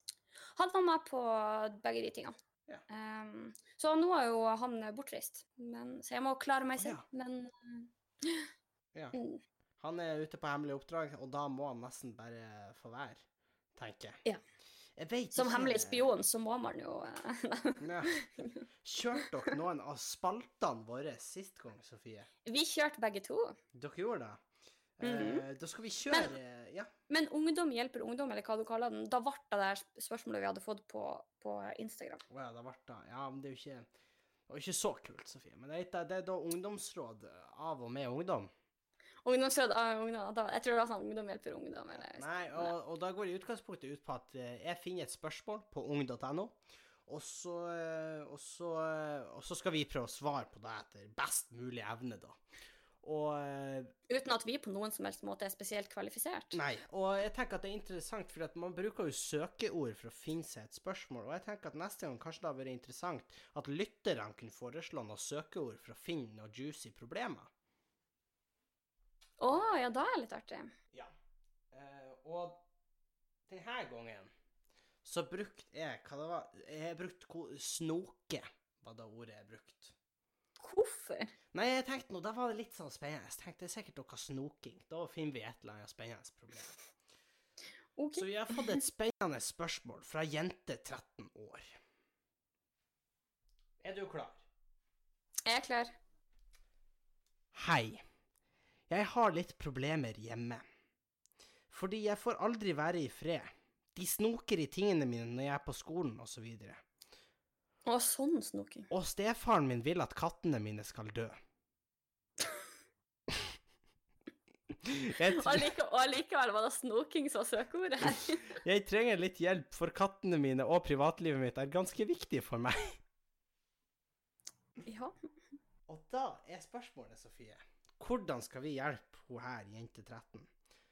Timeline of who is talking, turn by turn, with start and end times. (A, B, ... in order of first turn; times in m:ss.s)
0:00.5-0:02.4 A
0:02.9-0:08.5 A
0:06.8-0:07.0 B
0:09.1-0:09.4 A
0:09.8-0:13.2 B
0:13.8-0:14.2 B
0:15.0-0:16.1 B
0:15.3-0:18.6 A
0:17.8-0:18.2 B
0:18.8-0:22.3 B
0:22.4-0:23.6 A
0:23.7-0:24.4 B
0:25.0-0:26.9 B
0:25.0-0:25.4 A
0:27.1-0:32.2 A
0:32.3-0:33.8 B
0:34.5-0:38.5 B
0:39.2-0:42.7 A
0:42.0-0:52.4 B
0:53.0-0:53.9 B
0:54.1-0:56.6 A
0:56.5-1:07.5 B
1:09.4-1:10.7 A
1:11.7-1:12.6 B
1:13.5-1:14.3 B
1:15.0-1:19.9 B
1:20.6-1:21.3 A
1:21.5-1:26.8 B
1:28.0-1:28.8 A
1:28.1-1:31.7 B
1:33.8-1:34.4 B
1:35.4-1:35.9 A
1:37.5-1:38.0 B
1:38.9-1:40.6 B
1:41.7-1:46.8 B
1:47.8-1:48.9 A
1:48.9-1:51.4 B
1:54.8-1:55.7 B
1:55.3-1:58.6 A
1:58.5-2:03.0 B
2:04.8-2:05.1 A
2:05.9-2:10.5 B